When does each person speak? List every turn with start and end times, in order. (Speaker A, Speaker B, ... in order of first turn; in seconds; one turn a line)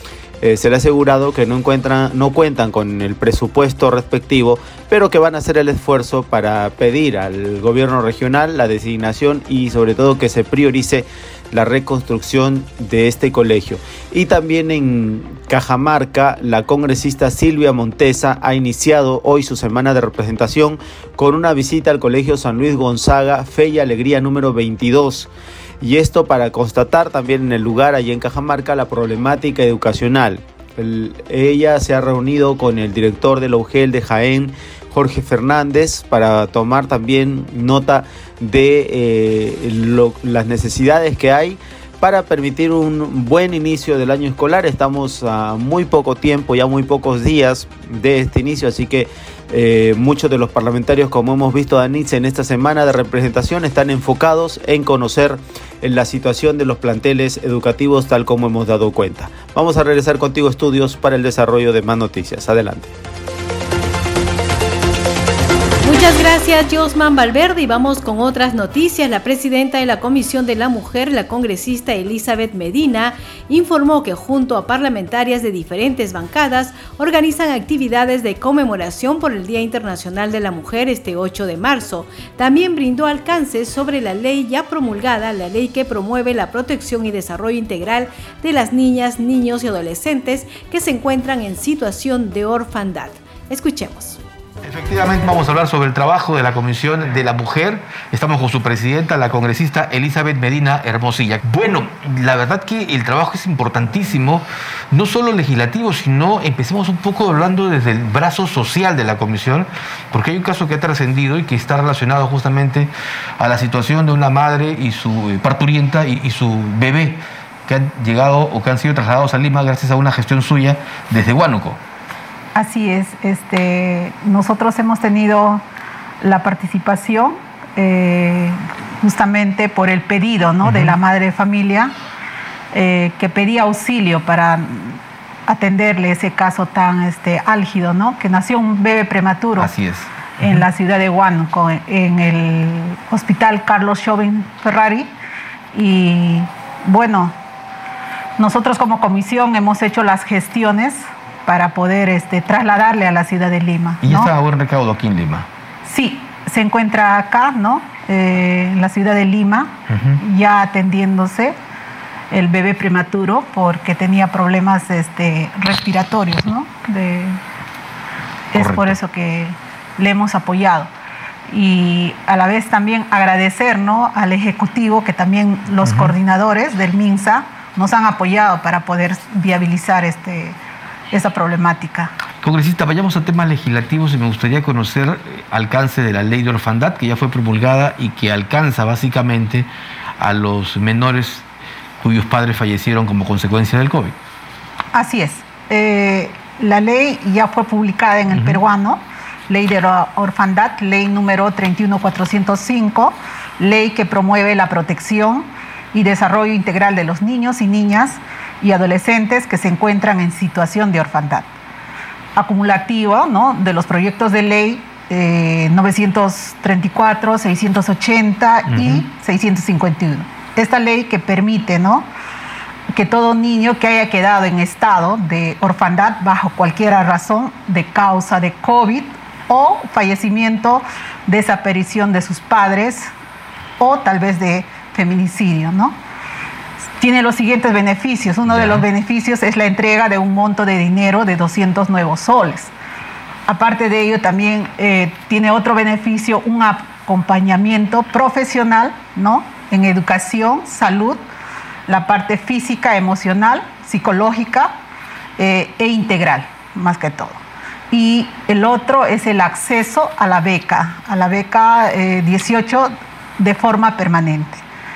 Speaker A: 0.4-25.3
Speaker A: 25.8-62.9
Speaker B: 65.8-94.2
Speaker C: 94.7-112.9
Speaker C: 113.4-121.8
Speaker D: 122.5-125.6
Speaker D: 126.2-131.9
Speaker C: 130.7-130.9
Speaker D: 132.7-139.7
Speaker C: 139.6-140.6
Speaker D: 140.4-145.1
Speaker D: 145.7-147.3
Speaker D: 148.4-154.3
Speaker C: 154.0-155.5
Speaker D: 155.8-161.6
Speaker C: 159.9-160.2
Speaker D: 162.3-167.4
Speaker D: 168.5-170.9
Speaker C: 168.6-168.9
Speaker D: 171.5-180.6
Speaker C: 175.8-176.1
Speaker D: 181.1-182.1
Speaker C: 182.4-189.7
Speaker C: 190.2-191.5
Speaker C: 192.0-194.2
Speaker D: 194.9-211.5
Speaker D: 212.3-222.1
Speaker C: 218.7-219.0
Speaker D: 222.9-233.1
Speaker D: 233.8-236.0
Speaker D: 237.0-242.7
Speaker C: 238.5-238.8
Speaker D: 243.5-251.2
Speaker D: 251.9-254.8
Speaker D: 255.4-257.4
Speaker D: 257.9-264.6